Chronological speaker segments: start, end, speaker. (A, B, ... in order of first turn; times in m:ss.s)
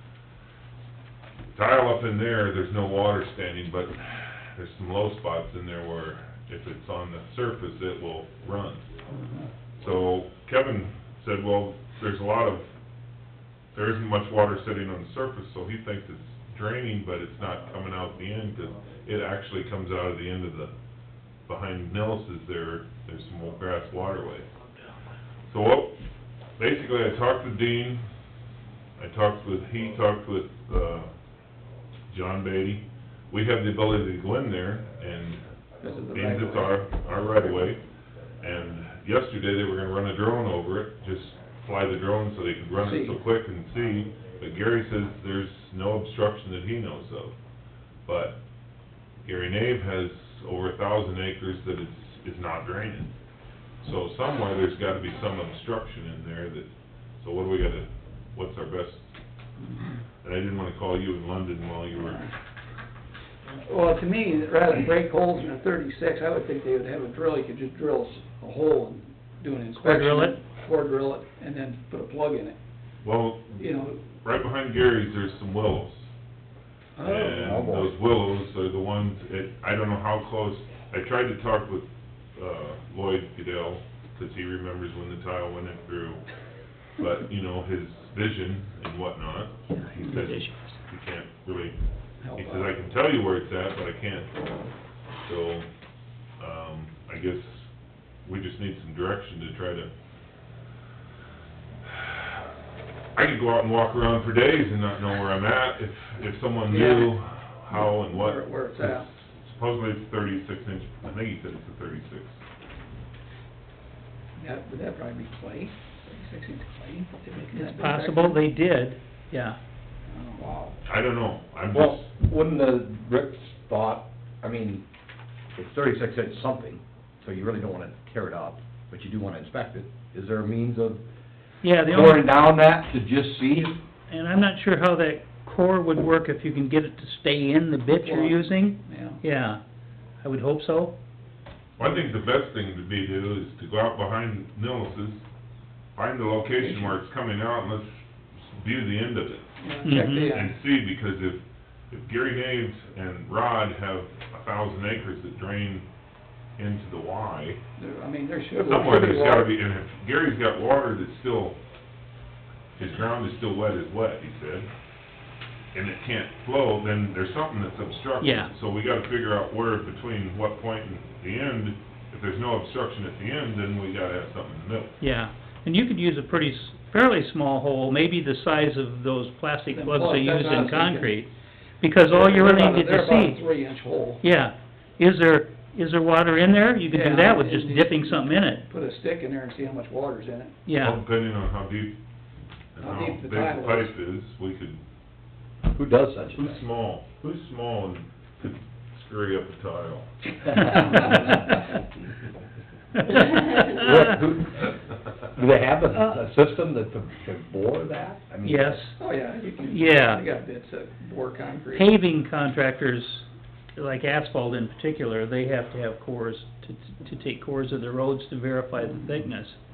0:01.5-0:08.9 A
0:09.8-0:12.7 A
0:13.7-0:20.7 A
0:21.4-0:24.5 A
0:25.5-0:26.0 A
0:26.6-0:28.0 A
0:29.0-0:31.1 A
0:32.1-0:35.4 A
0:35.8-0:36.8 B
0:36.1-0:37.8 A
0:38.4-0:47.3 A
0:42.8-0:43.2 B
0:48.0-0:48.4 A
0:49.2-0:53.1 A
0:53.8-0:59.1 A
1:00.2-1:02.3 A
1:03.6-1:12.6 B
1:09.7-1:10.4 C
1:13.0-1:16.1 A
1:13.6-1:14.0 B
1:17.0-1:17.4 B
1:17.0-1:26.2 A
1:17.1-1:18.0 D
1:27.0-1:31.8 A
1:29.7-1:30.8 C
1:32.2-1:32.7 B
1:32.3-1:34.4 A
1:35.2-1:35.7 A
1:36.4-1:37.7 A
1:38.2-1:39.9 A
1:41.9-1:42.4 A
1:43.1-1:52.4 A
1:46.7-1:47.1 B
1:47.7-1:49.0 B
1:54.4-1:58.4 B
1:57.5-1:59.6 C
2:00.1-2:00.8 B
2:00.8-2:02.0 A
2:01.7-2:04.8 D
2:05.5-2:11.0 D
2:11.6-2:12.3 C
2:11.9-2:13.8 D
2:14.1-2:19.6 C
2:18.0-2:19.2 B
2:20.2-2:20.9 C
2:21.8-2:25.3 A
2:25.9-2:35.9 A
2:26.6-2:26.9 B
2:29.6-2:30.5 B
2:29.8-2:30.4 C
2:36.6-2:37.6 A
2:37.8-2:39.5 B
2:38.6-2:41.6 A
2:42.8-2:44.7 A
2:45.7-2:54.9 A
2:48.2-2:48.5 C
2:55.0-3:03.4 C
2:59.7-3:01.2 B
3:02.1-3:04.2 B
3:04.2-3:08.6 C
3:06.9-3:10.5 B
3:10.6-3:11.0 C
3:10.8-3:12.0 A
3:12.7-3:14.8 A
3:12.8-3:13.9 B
3:15.7-3:16.6 D
3:16.3-3:21.4 A
3:20.6-3:21.6 C
3:23.0-3:24.0 C
3:23.2-3:28.8 D
3:28.4-3:29.0 C
3:29.0-3:31.9 B
3:29.7-3:30.2 C
3:31.7-3:39.6 C